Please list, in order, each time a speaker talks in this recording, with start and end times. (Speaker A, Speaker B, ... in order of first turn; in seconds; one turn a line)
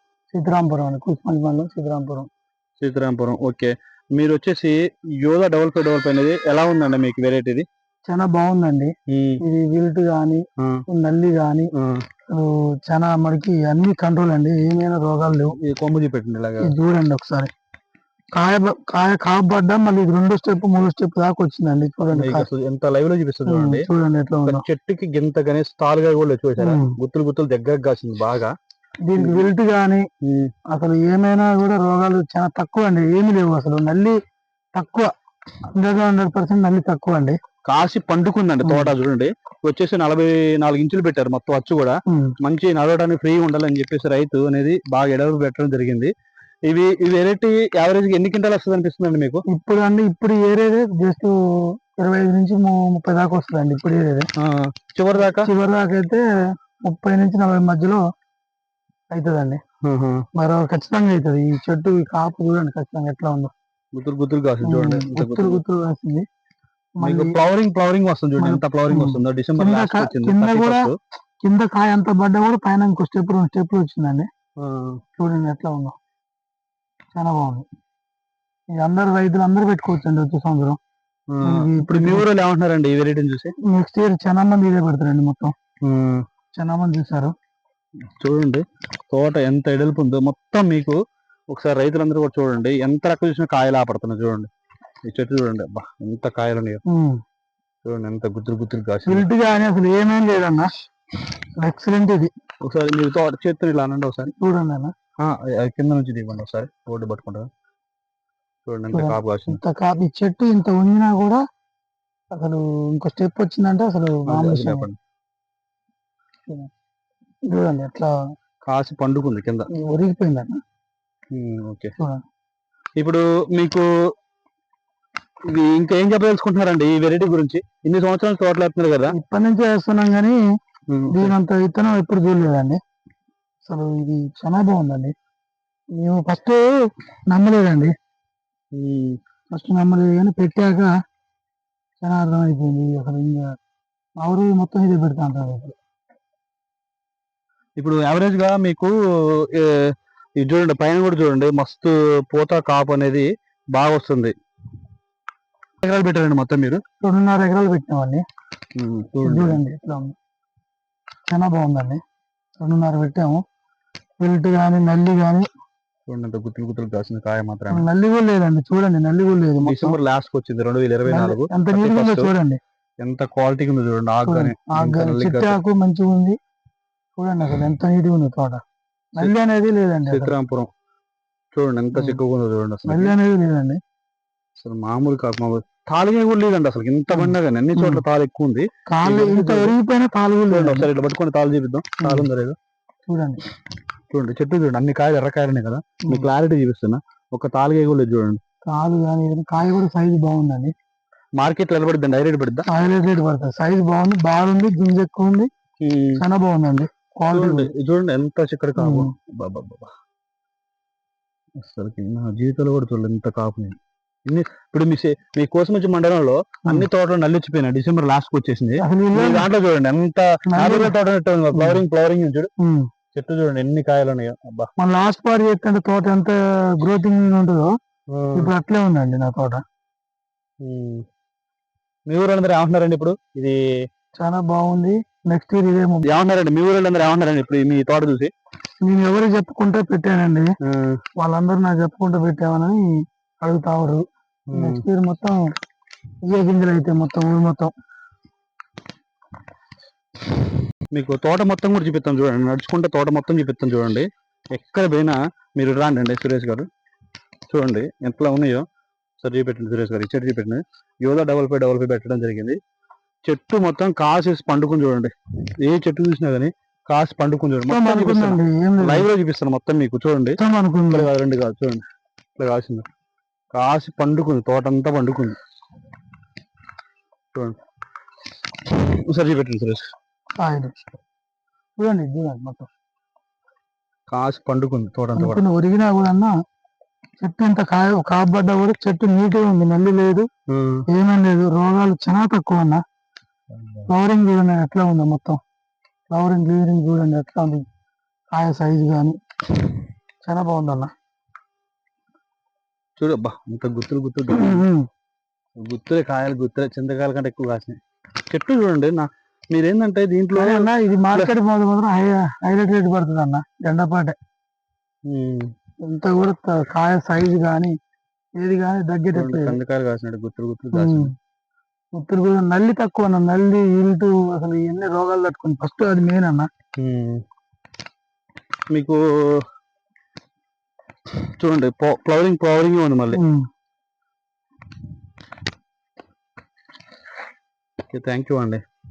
Speaker A: 0.3-2.3
Speaker B: 2.8-7.7
Speaker A: 8.1-11.7
Speaker B: 9.1-9.4
Speaker B: 10.6-10.8
Speaker B: 11.7-12.0
Speaker A: 12.3-15.5
Speaker B: 15.6-16.7
Speaker A: 16.6-17.5
Speaker A: 18.3-22.5
Speaker B: 22.1-23.9
Speaker A: 23.5-24.6
Speaker B: 24.4-28.5
Speaker A: 26.6-26.9
Speaker A: 29.1-30.0
Speaker B: 29.2-29.5
Speaker B: 30.2-30.5
Speaker A: 30.7-34.1
Speaker A: 34.8-35.1
Speaker A: 35.7-37.4
Speaker B: 37.6-46.1
Speaker A: 38.6-38.9
Speaker A: 42.1-42.3
Speaker B: 46.7-49.4
Speaker A: 49.5-51.3
Speaker A: 52.0-54.3
Speaker B: 54.4-55.5
Speaker A: 55.2-56.2
Speaker A: 56.8-58.0
Speaker A: 59.1-59.6
Speaker B: 59.8-60.2
Speaker A: 60.4-63.5
Speaker B: 63.9-65.6
Speaker A: 64.6-66.2
Speaker A: 67.0-67.3
Speaker B: 67.0-70.9
Speaker A: 68.4-70.9
Speaker A: 71.4-74.3
Speaker B: 74.6-75.0
Speaker A: 75.2-75.9
Speaker A: 77.1-77.6
Speaker A: 78.8-80.8
Speaker B: 81.3-83.5
Speaker A: 81.4-82.3
Speaker A: 83.7-85.5
Speaker B: 85.8-86.2
Speaker A: 86.5-87.3
Speaker B: 88.2-91.0
Speaker B: 91.5-94.5
Speaker B: 95.0-96.8
Speaker A: 96.9-97.2
Speaker B: 97.8-99.3
Speaker A: 99.0-100.7
Speaker A: 101.6-102.3
Speaker B: 102.6-104.3
Speaker A: 104.3-104.9
Speaker B: 105.2-107.5
Speaker B: 108.7-109.6
Speaker A: 108.9-111.4
Speaker A: 112.3-114.9
Speaker B: 114.3-115.0
Speaker A: 117.5-118.1
Speaker B: 118.6-119.7
Speaker A: 119.7-120.6
Speaker B: 121.3-121.9
Speaker B: 123.0-123.8
Speaker B: 125.5-129.1
Speaker A: 129.1-130.4
Speaker B: 130.9-131.3
Speaker A: 131.1-132.8
Speaker A: 133.6-135.1
Speaker A: 135.9-136.6
Speaker A: 137.3-137.9
Speaker B: 138.7-139.2
Speaker A: 139.5-140.9
Speaker A: 142.0-143.4
Speaker A: 144.2-145.7
Speaker B: 147.8-154.3
Speaker B: 155.8-156.8
Speaker A: 157.0-158.2
Speaker B: 158.8-159.6
Speaker A: 159.2-160.1
Speaker A: 161.3-162.0
Speaker A: 162.6-163.4
Speaker A: 164.2-165.4
Speaker B: 166.1-167.8
Speaker A: 167.7-169.9
Speaker B: 169.6-172.3
Speaker A: 171.1-172.6
Speaker B: 173.0-175.6
Speaker A: 174.2-176.3
Speaker A: 177.2-178.6
Speaker A: 179.2-180.3
Speaker B: 180.1-180.7
Speaker B: 181.5-183.1
Speaker A: 182.9-183.8
Speaker B: 184.6-189.8
Speaker A: 187.1-188.0
Speaker A: 188.9-190.9
Speaker B: 190.5-192.6
Speaker A: 192.0-192.2
Speaker A: 193.1-193.4
Speaker B: 194.1-198.4
Speaker A: 198.7-200.7
Speaker B: 201.4-202.7
Speaker A: 202.7-205.5
Speaker B: 205.8-206.2
Speaker A: 206.2-207.7
Speaker B: 207.3-209.9
Speaker A: 208.8-209.1
Speaker B: 211.6-222.5
Speaker A: 218.8-219.5
Speaker A: 220.5-220.9
Speaker A: 221.5-221.8
Speaker A: 222.6-222.8
Speaker B: 223.1-224.7
Speaker A: 224.8-227.7
Speaker B: 228.1-228.5
Speaker A: 228.3-229.6
Speaker B: 230.6-231.0
Speaker B: 232.1-233.6
Speaker A: 234.2-236.1
Speaker B: 236.0-238.3
Speaker A: 238.8-240.5
Speaker B: 240.6-241.0
Speaker A: 241.2-242.8
Speaker A: 243.4-244.0
Speaker B: 244.5-244.8
Speaker A: 244.5-245.4
Speaker A: 246.3-247.7
Speaker B: 250.9-256.7
Speaker B: 257.5-258.6
Speaker B: 259.2-262.6
Speaker B: 263.2-270.4
Speaker A: 267.7-269.1
Speaker A: 270.4-271.1
Speaker B: 270.9-271.8
Speaker B: 272.4-272.9
Speaker B: 273.5-275.4
Speaker B: 278.7-279.8
Speaker A: 280.4-280.7
Speaker A: 281.8-282.7
Speaker B: 284.1-285.4
Speaker A: 285.1-286.3
Speaker A: 287.2-290.3
Speaker B: 290.5-290.8
Speaker A: 290.9-292.8
Speaker B: 293.5-293.9
Speaker A: 293.9-295.4
Speaker A: 296.1-297.6
Speaker A: 298.3-299.1
Speaker A: 300.2-300.9
Speaker B: 303.0-304.6
Speaker A: 304.3-304.9
Speaker B: 305.6-307.8
Speaker B: 308.3-311.3
Speaker A: 310.3-314.1
Speaker B: 315.1-315.5
Speaker A: 315.9-317.7
Speaker A: 318.4-319.6
Speaker B: 319.1-321.1
Speaker A: 320.7-321.1
Speaker A: 321.9-326.5
Speaker B: 326.8-327.2
Speaker B: 328.7-329.4
Speaker B: 331.1-333.2
Speaker A: 333.1-333.4
Speaker B: 337.9-338.6